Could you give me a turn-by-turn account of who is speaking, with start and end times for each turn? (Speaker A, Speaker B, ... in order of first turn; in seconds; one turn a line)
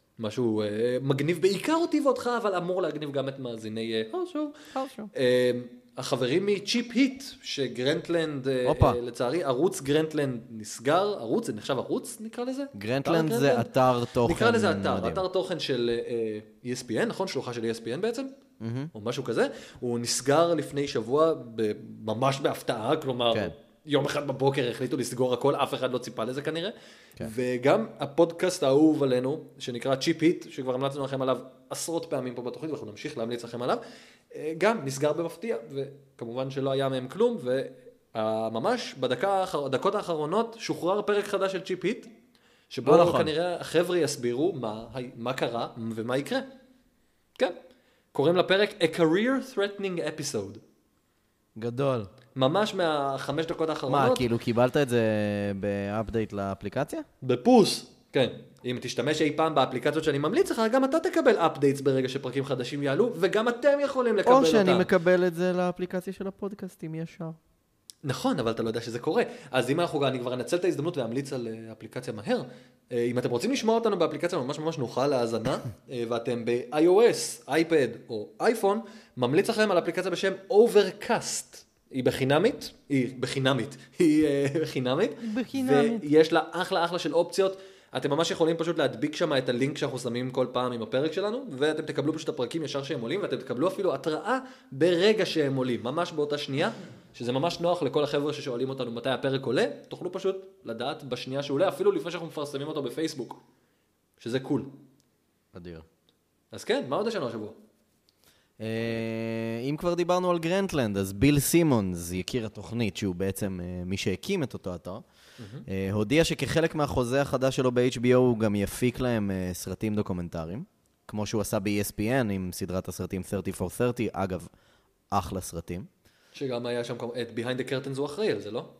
Speaker A: 0.2-13.7
Speaker B: 4.7-5.1
Speaker B: 8.6-9.0
Speaker B: 12.7-15.2
Speaker A: 14.2-18.3
Speaker B: 18.6-18.9
Speaker A: 18.9-42.1
Speaker A: 42.7-46.5
Speaker B: 42.8-43.3
Speaker A: 48.1-50.6
Speaker B: 51.6-52.1
Speaker A: 52.4-54.3
Speaker B: 53.9-57.1
Speaker A: 57.2-64.9
Speaker B: 64.2-67.4
Speaker A: 68.0-103.4
Speaker B: 85.2-86.1
Speaker A: 104.2-104.8
Speaker B: 105.5-105.9
Speaker A: 106.5-107.6
Speaker B: 108.6-115.0
Speaker A: 115.4-115.7
Speaker B: 115.7-124.5
Speaker B: 125.1-125.9
Speaker A: 126.3-128.7